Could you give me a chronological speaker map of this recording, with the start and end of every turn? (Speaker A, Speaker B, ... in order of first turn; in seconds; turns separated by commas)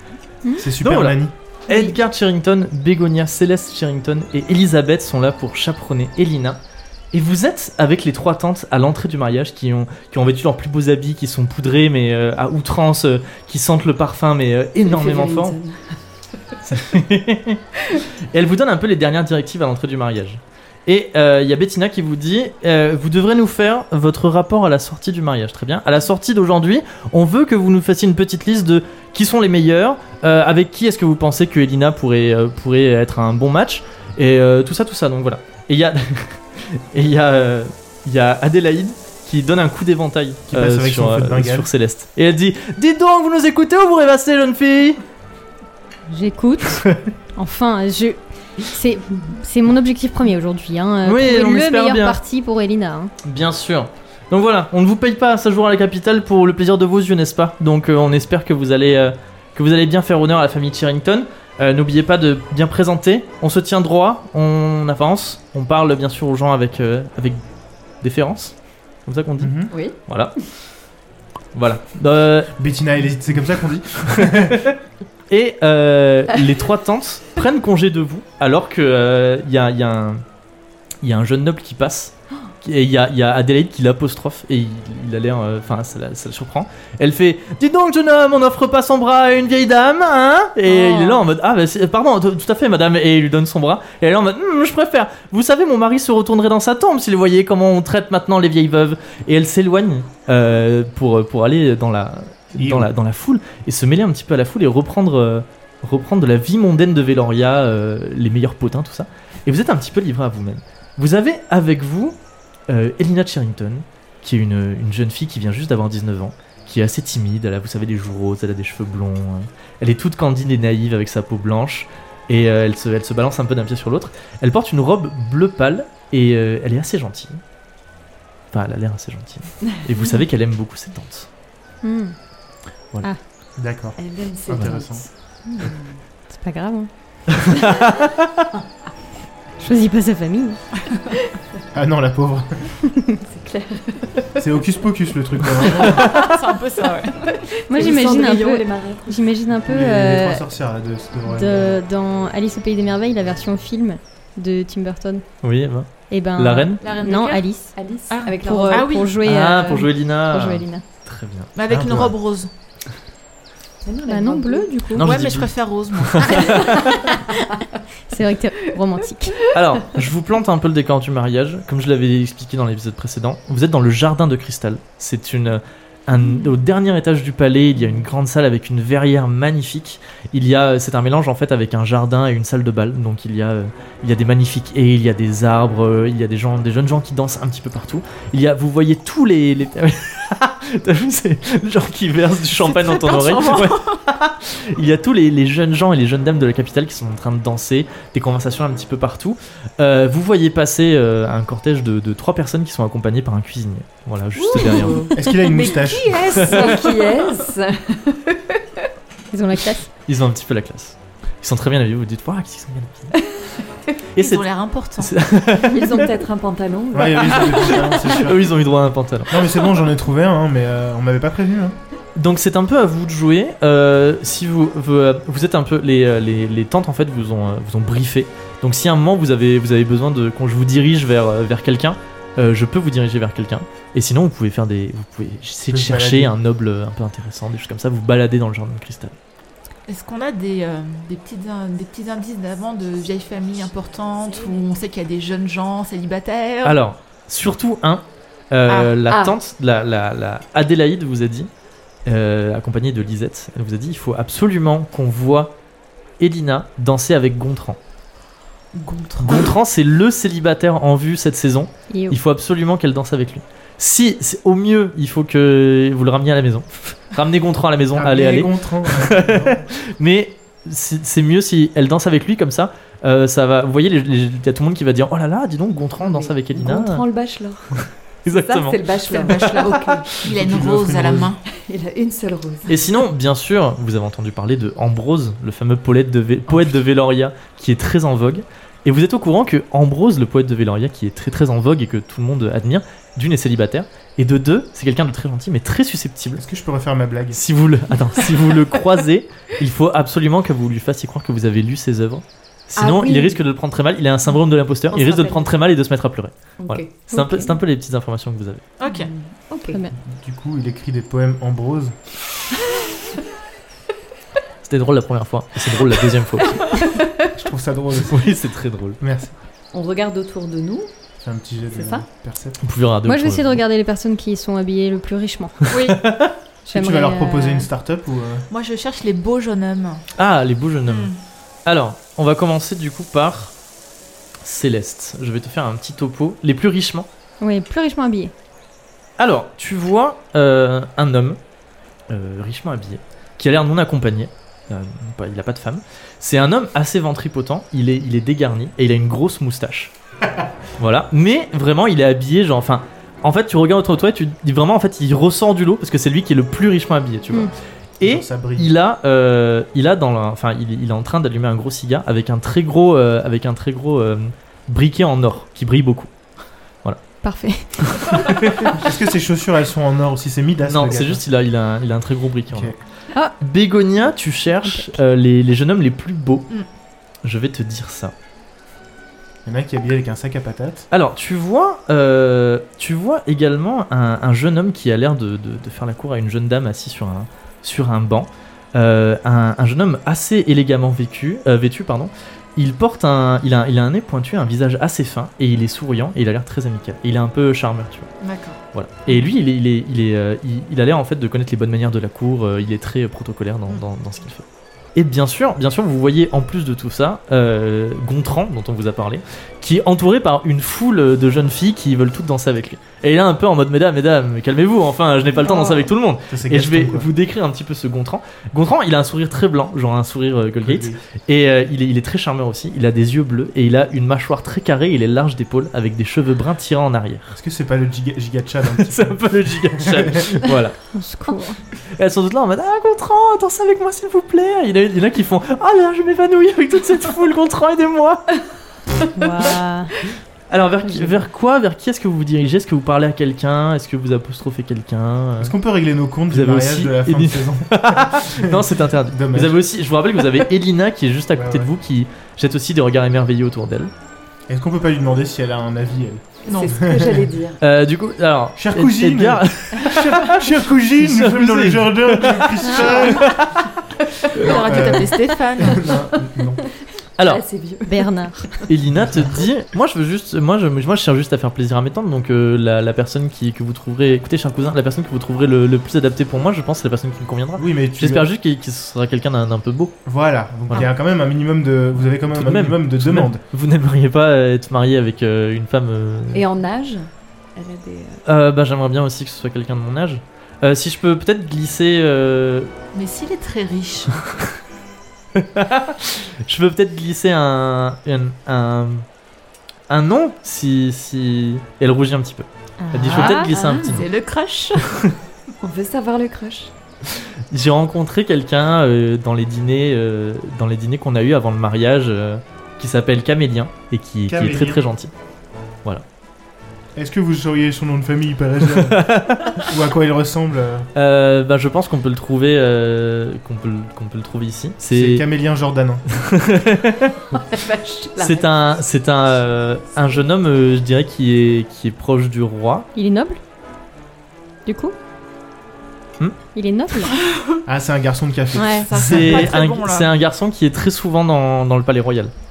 Speaker A: 0.4-0.7, Speaker B: 0.6-1.3, Speaker C: 0.8-6.6, Speaker C: 7.1-15.6, Speaker D: 14.8-15.9, Speaker C: 16.6-17.6, Speaker C: 18.3-45.0, Speaker B: 40.5-41.7, Speaker A: 46.1-46.8, Speaker A: 47.4-53.1, Speaker C: 51.0-52.2, Speaker C: 53.2-67.4, Speaker C: 68.0-70.3, Speaker B: 69.4-69.7, Speaker D: 69.7-70.0, Speaker C: 71.5-72.5, Speaker B: 72.5-74.6, Speaker C: 74.1-74.8, Speaker C: 75.3-80.2, Speaker C: 81.0-112.2, Speaker A: 90.7-91.2, Speaker B: 102.6-102.9, Speaker C: 112.7-127.4, Speaker C: 128.5-131.3, Speaker A: 131.8-132.2, Speaker B: 133.6-135.0, Speaker D: 134.0-136.0, Speaker A: 136.3-137.4, Speaker C: 137.3-138.4, Speaker A: 139.6-140.6, Speaker B: 141.7-142.7, Speaker A: 142.8-143.2, Speaker D: 143.3-144.4, Speaker B: 144.4-146.2, Speaker C: 145.8-146.3, Speaker E: 145.8-147.3, Speaker D: 147.3-149.2, Speaker A: 147.7-150.4, Speaker B: 149.7-151.8, Speaker A: 151.3-155.2, Speaker C: 155.4-156.8, Speaker A: 156.1-157.8, Speaker E: 156.8-157.5, Speaker D: 157.8-159.0, Speaker E: 158.1-159.2, Speaker A: 158.4-160.8, Speaker C: 159.2-162.1, Speaker E: 161.6-162.5, Speaker B: 161.7-162.1, Speaker D: 163.8-164.7, Speaker A: 164.1-165.1, Speaker C: 164.9-166.8, Speaker E: 165.0-166.6, Speaker A: 168.1-169.4, Speaker C: 169.5-205.1, Speaker E: 192.6-194.0, Speaker E: 204.4-207.1, Speaker D: 204.5-208.8, Speaker B: 205.1-206.4, Speaker C: 206.2-206.8, Speaker A: 209.3-209.9, Speaker C: 210.1-213.2, Speaker C: 214.2-214.4, Speaker E: 214.2-215.2, Speaker C: 215.0-216.1, Speaker D: 215.7-218.1, Speaker B: 216.9-218.5, Speaker C: 218.0-219.4, Speaker B: 219.3-221.8, Speaker C: 222.2-239.2, Speaker B: 235.7-236.3, Speaker E: 239.9-246.8, Speaker C: 246.6-251.5, Speaker E: 248.7-248.9, Speaker D: 249.1-249.4, Speaker C: 252.1-255.5, Speaker C: 256.2-257.8, Speaker E: 258.7-259.5, Speaker C: 259.2-277.0, Speaker A: 261.9-262.2, Speaker B: 267.9-269.6, Speaker D: 276.0-280.1, Speaker C: 278.2-279.6, Speaker E: 279.1-281.4, Speaker B: 280.2-281.3, Speaker D: 281.5-282.8, Speaker C: 282.7-296.4, Speaker B: 296.4-297.4, Speaker C: 297.3-308.6, Speaker D: 302.8-303.4, Speaker D: 304.9-305.5, Speaker D: 306.6-306.9, Speaker A: 307.1-307.6, Speaker E: 308.8-309.1, Speaker D: 308.9-309.8, Speaker A: 309.7-309.9, Speaker B: 310.0-312.0, Speaker C: 314.6-316.6, Speaker D: 316.4-317.3, Speaker B: 317.3-318.3, Speaker C: 318.1-319.0, Speaker B: 319.0-319.3, Speaker D: 319.7-320.9, Speaker B: 321.2-322.6, Speaker D: 321.7-322.0, Speaker C: 322.6-323.6, Speaker A: 323.0-325.7, Speaker E: 325.7-326.0, Speaker C: 325.7-326.4, Speaker A: 326.6-327.7, Speaker B: 326.7-328.4, Speaker E: 328.5-330.0, Speaker C: 330.2-331.1, Speaker E: 330.9-331.2, Speaker C: 331.6-333.5, Speaker C: 334.4-337.1, Speaker A: 337.4-338.3, Speaker C: 339.2-341.4, Speaker C: 342.1-349.9, Speaker C: 350.8-366.1, Speaker B: 358.0-358.7, Speaker A: 367.2-368.4, Speaker C: 367.8-368.8, Speaker B: 368.7-371.2, Speaker C: 370.6-372.7, Speaker B: 372.5-372.8, Speaker C: 373.4-376.5, Speaker A: 374.6-374.9, Speaker C: 377.2-378.1, Speaker B: 379.4-380.9, Speaker C: 380.9-398.1, Speaker E: 398.2-398.6, Speaker C: 398.7-427.4, Speaker A: 415.4-415.9, Speaker B: 416.3-417.1, Speaker B: 420.6-421.0, Speaker B: 427.3-430.4, Speaker C: 428.8-430.8, Speaker A: 430.9-431.6, Speaker C: 431.9-438.4, Speaker A: 439.0-439.9, Speaker C: 440.5-445.5, Speaker B: 445.4-449.6, Speaker C: 446.3-453.9, Speaker B: 451.3-451.7, Speaker B: 454.5-457.3, Speaker E: 456.4-456.8, Speaker D: 456.5-457.6, Speaker C: 457.6-463.7, Speaker B: 458.6-463.3, Speaker A: 462.6-463.2, Speaker E: 464.3-466.0, Speaker B: 464.4-466.6, Speaker D: 464.4-464.8, Speaker C: 467.2-467.4, Speaker D: 467.2-468.6, Speaker A: 467.9-468.6, Speaker C: 468.7-480.0, Speaker B: 477.6-478.3, Speaker B: 480.1-483.4, Speaker C: 482.3-486.4, Speaker D: 486.3-488.2, Speaker C: 488.2-492.7, Speaker E: 492.9-494.2, Speaker C: 495.3-499.1, Speaker C: 499.9-504.1, Speaker A: 502.8-503.8, Speaker E: 503.1-504.8, Speaker D: 503.2-503.9, Speaker C: 504.9-505.1, Speaker D: 505.6-506.7, Speaker C: 507.5-515.1, Speaker B: 514.3-514.8, Speaker B: 516.9-520.9, Speaker C: 518.8-519.7, Speaker C: 520.9-525.2, Speaker B: 524.9-526.0, Speaker C: 526.1-527.2, Speaker D: 527.3-528.5, Speaker C: 528.2-532.9, Speaker A: 532.9-533.4, Speaker A: 534.6-534.9, Speaker A: 536.5-537.1, Speaker E: 537.2-537.6, Speaker B: 537.7-539.5, Speaker A: 538.5-538.9, Speaker E: 538.6-540.1, Speaker C: 538.9-542.3